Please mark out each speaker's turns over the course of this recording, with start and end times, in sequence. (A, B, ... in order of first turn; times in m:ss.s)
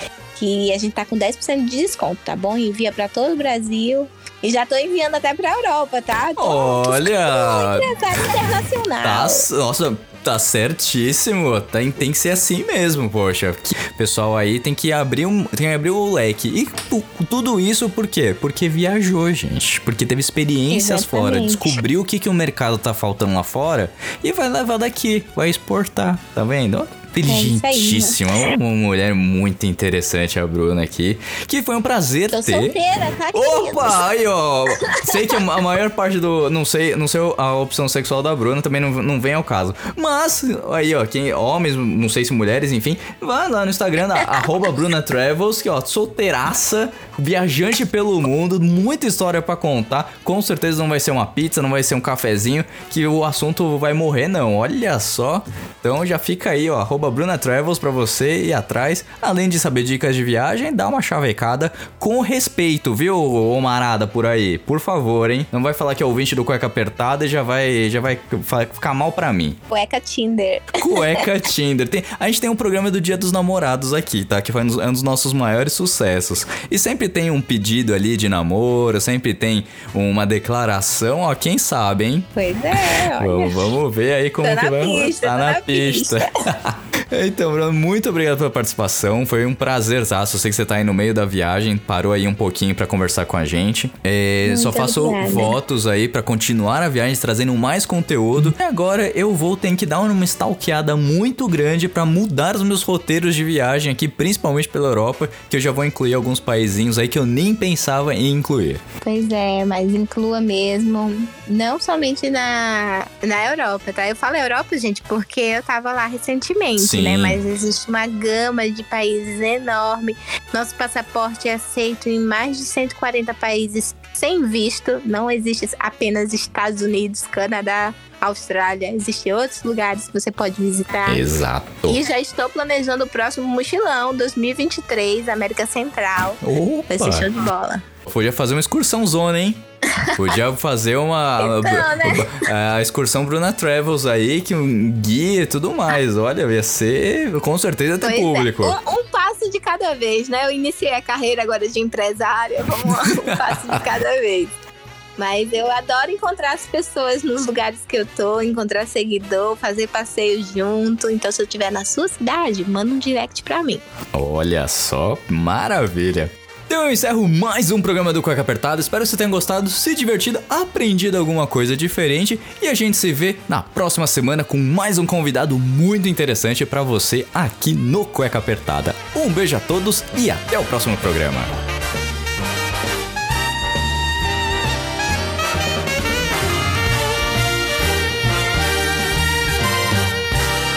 0:00.4-0:09.4 A
0:06.4-0:08.5 B
0:09.0-0:32.8 B
0:20.7-0:21.8 A
0:27.2-0:28.5 A
0:32.3-0:34.1 A
0:33.3-1:09.6 B
0:34.8-0:35.1 A
1:09.7-1:11.2 A
1:10.8-1:48.8 B
1:22.4-1:23.7 A
1:24.4-1:26.2 A
1:34.4-1:35.6 A
1:49.0-2:11.3 A
1:56.8-1:57.4 B
2:11.1-2:12.0 B
2:11.8-2:17.8 A
2:16.4-2:17.3 B
2:18.0-2:19.6 B
2:20.1-2:28.8 B
2:21.4-2:22.4 A
2:28.0-2:34.5 A
2:32.8-2:33.8 B
2:35.2-2:43.8 A
2:44.1-3:01.5 B